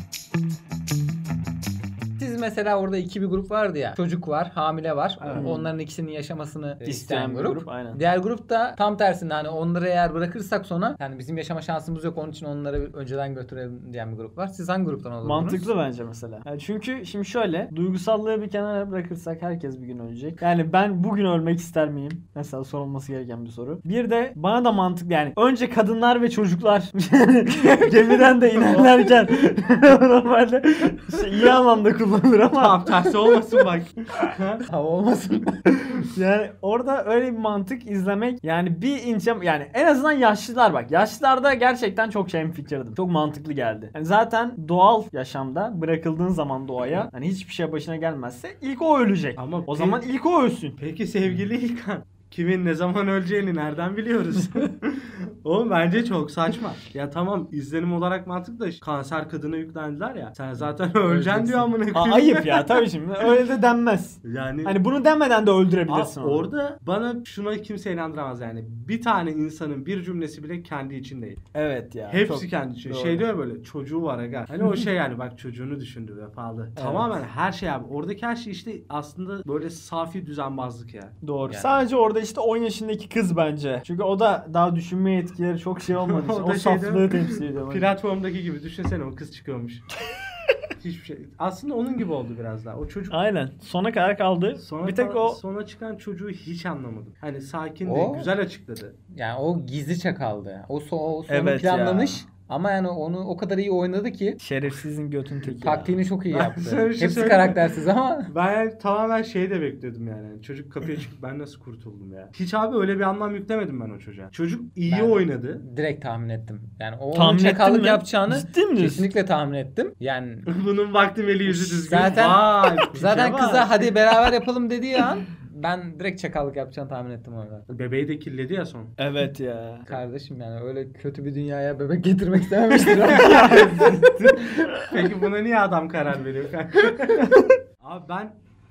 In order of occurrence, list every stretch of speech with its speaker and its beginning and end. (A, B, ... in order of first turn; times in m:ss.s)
0:02.2-0:15.7 A
0:05.2-0:05.5 B
0:05.3-0:05.7 C
0:06.8-0:08.0 C
0:15.2-0:33.4 C
0:32.5-0:34.6 B
0:34.7-0:35.7 A
0:36.0-0:50.8 C
0:49.4-0:50.0 B
0:50.8-1:03.3 B
1:01.0-1:01.7 A
1:01.9-1:06.5 C
1:04.2-1:04.8 B
1:05.9-1:11.4 B
1:11.5-1:13.3 C
1:12.1-1:21.2 B
1:16.8-1:17.1 C
1:21.2-1:27.9 C
1:26.0-1:29.8 B
1:30.8-1:33.2 B
1:33.1-1:35.4 C
1:34.6-1:39.0 B
1:37.9-1:38.3 A
1:39.1-1:44.4 A
1:41.3-1:42.2 C
1:44.4-1:46.0 C
1:45.6-1:48.3 A
1:46.3-1:47.7 B
1:48.3-1:55.6 B
1:54.9-2:00.5 A
1:57.1-1:59.1 C
2:00.5-2:03.9 B
2:01.5-2:07.7 A
2:07.7-2:08.9 B
2:09.0-2:09.9 C
2:09.9-2:14.1 A
2:12.9-2:15.0 C
2:13.0-2:18.4 B